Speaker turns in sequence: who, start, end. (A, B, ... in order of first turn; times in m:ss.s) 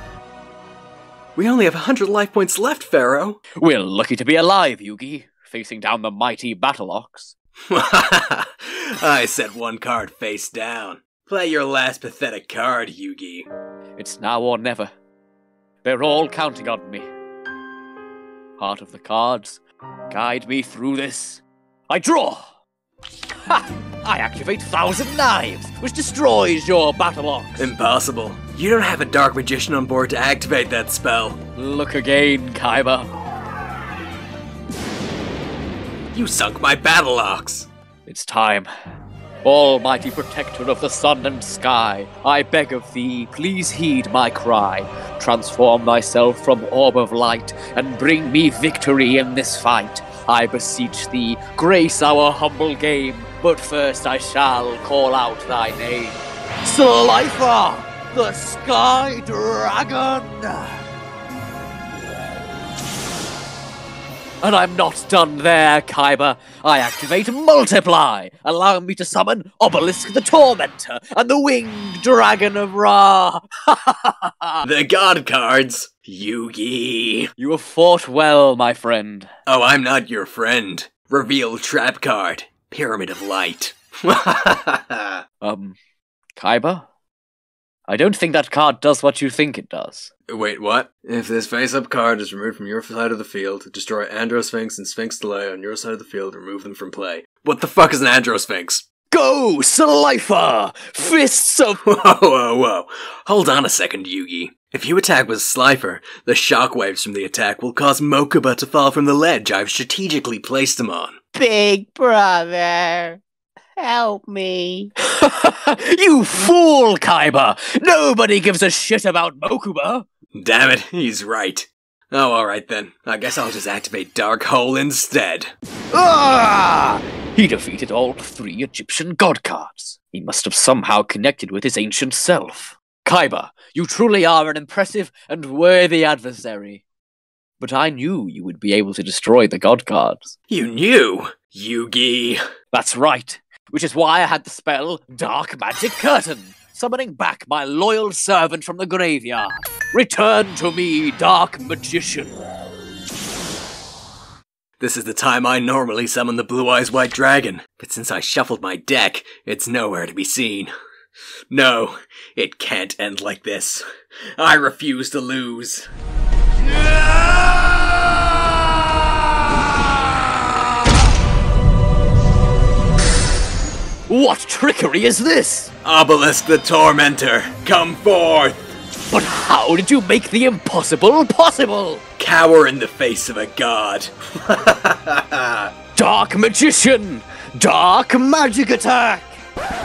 0:01.4-0:03.4 A
0:03.6-0:07.4 B
0:07.7-0:13.5 A
0:14.0-0:14.9 B
0:15.8-0:17.1 B
0:18.6-0:22.6 B
0:23.5-0:27.7 B
0:27.6-0:31.4 A
0:31.6-0:33.1 B
0:36.1-0:37.7 A
0:38.1-0:38.7 B
0:39.4-1:00.8 B
1:04.4-1:14.6 B
1:14.6-1:17.3 A
1:17.4-1:19.3 B
1:19.5-1:25.2 A
1:25.4-1:25.8 B
1:26.4-1:26.9 B
1:27.9-1:30.1 B
1:30.3-1:38.8 A
1:39.1-1:41.8 B
1:41.8-1:51.2 A
1:51.4-1:53.2 C
1:53.8-1:54.9 C
1:55.1-2:00.0 B
2:00.4-2:05.5 A
2:05.9-2:16.8 B
2:17.6-2:20.4 B
2:20.5-2:22.4 A
2:22.7-2:32.4 B
2:34.8-2:40.7 A
2:41.5-2:43.8 A
2:44.4-2:45.9 A
2:46.7-2:50.3 B
2:54.1-2:55.7 B
2:55.8-2:58.8 A
2:59.1-3:02.0 B
3:02.2-3:05.7 A
3:06.0-3:09.4 B